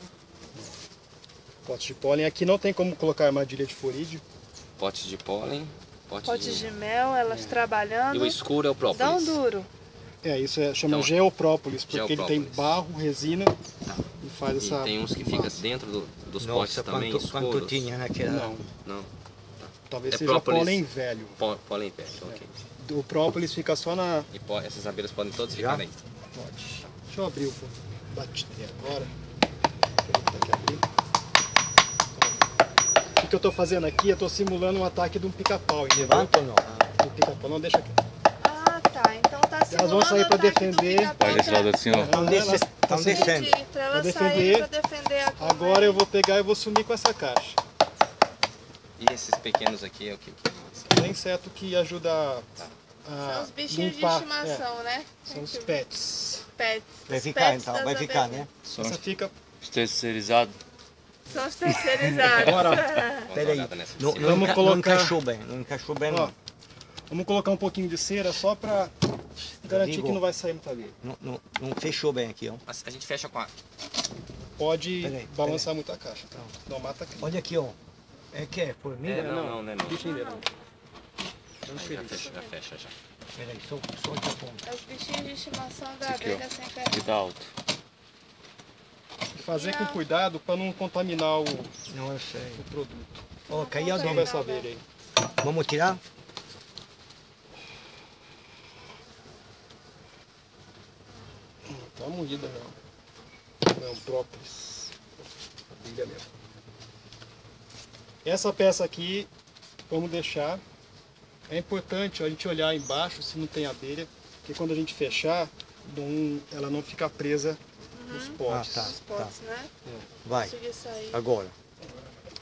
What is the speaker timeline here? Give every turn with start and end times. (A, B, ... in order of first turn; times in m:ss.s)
0:01.6-0:04.2 A
0:04.8-0:06.8 B
0:06.2-0:09.7 C
0:07.3-0:07.6 A
0:08.1-0:09.4 B
0:10.2-0:13.5 A
0:10.9-0:11.1 B
0:11.9-0:12.8 B
0:14.2-0:15.6 A
0:14.6-0:17.9 B
0:16.4-0:18.5 D
0:18.2-0:18.7 A
0:18.8-0:20.8 B
0:19.9-0:21.4 A
0:21.4-0:22.5 B
0:22.3-0:24.3 A
0:24.3-0:26.0 B
0:25.5-0:25.8 D
0:26.4-0:29.1 A
0:30.0-0:30.8 A
0:33.2-0:38.0 A
0:36.0-0:36.7 D
0:38.4-0:41.8 C
0:39.7-0:44.7 A
0:41.2-0:42.2 E
0:42.0-0:43.6 D
0:43.0-0:46.0 C
0:45.4-0:47.6 A
0:49.0-0:51.0 B
0:50.9-0:52.5 A
0:53.0-0:54.7 A
0:53.2-0:55.8 C
0:55.3-0:56.5 A
0:56.6-0:58.5 C
0:57.1-0:58.5 D
0:58.6-0:59.3 A
0:58.7-0:59.0 E
0:59.6-1:00.6 E
1:01.3-1:03.3 C
1:02.2-1:02.9 A
1:03.2-1:04.7 B
1:03.3-1:06.3 D
1:04.2-1:05.2 A
1:06.1-1:06.3 A
1:07.1-1:08.9 A
1:09.6-1:11.0 A
1:09.6-1:10.2 D
1:11.0-1:12.6 D
1:12.7-1:13.5 B
1:14.6-1:17.3 A
1:15.0-1:15.7 D
1:17.2-1:17.8 D
1:18.3-1:19.5 D
1:19.0-1:20.1 B
1:19.1-1:20.5 A
1:19.8-1:20.4 C
1:21.7-1:22.3 A
1:21.7-1:22.9 B
1:22.1-1:22.5 C
1:23.4-1:24.7 D
1:24.6-1:27.0 C
1:26.0-1:27.5 E
1:29.3-1:31.7 A
1:29.5-1:30.0 C
1:31.9-1:32.6 D
1:32.6-1:33.2 A
1:33.5-1:34.7 C
1:33.5-1:34.3 D
1:34.0-1:34.8 A
1:35.4-1:36.0 D
1:41.7-1:42.8 A
1:43.6-1:45.0 A
1:45.7-1:46.3 A
1:48.2-1:49.3 A
1:49.9-1:50.6 A
1:51.5-1:59.0 A
1:58.0-1:59.7 C
1:58.5-1:59.3 D
2:00.2-2:00.6 D
2:00.4-2:01.2 C
2:01.1-2:01.6 D